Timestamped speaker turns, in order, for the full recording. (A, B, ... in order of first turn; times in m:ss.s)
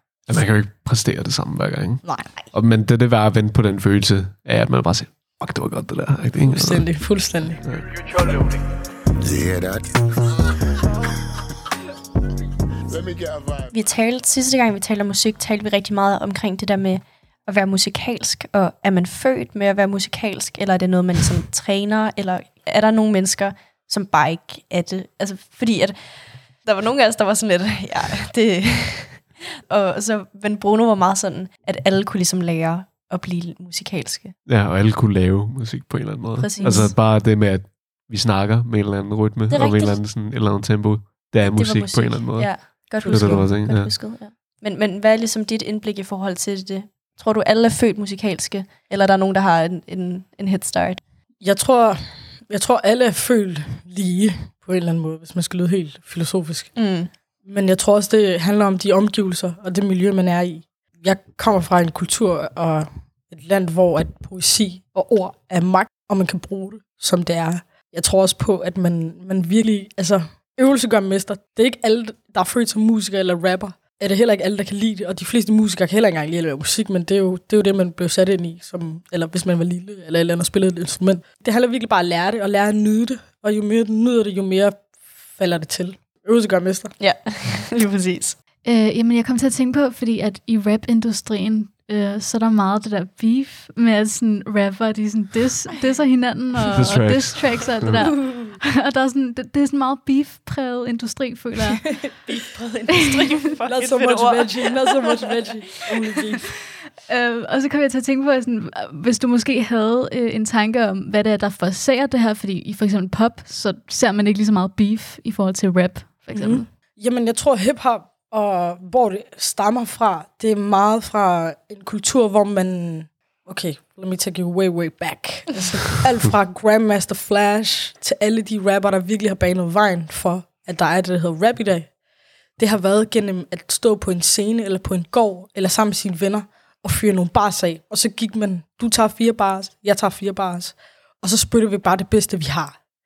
0:00.3-0:08.0 A
0:02.0-0:02.4 B
0:06.4-0:07.6 B
0:09.2-0:10.3 C
0:12.9-0:13.7 C
0:13.7-0:34.4 D
0:34.4-0:44.0 A
0:36.4-0:36.9 D
0:36.6-0:36.9 E
0:36.6-0:36.9 B
0:39.5-0:40.0 D
0:41.5-0:51.0 D
0:43.0-0:43.5 B
0:51.4-0:56.9 B
0:56.7-0:57.1 D
0:57.4-1:26.9 B
1:27.0-1:28.4 D
1:28.6-1:42.1 E
1:36.7-1:38.0 A
1:38.2-1:38.5 D
1:42.2-1:45.2 D
1:43.5-1:46.5 B
1:47.1-1:56.6 E
1:56.3-2:12.0 B
2:12.5-2:22.8 B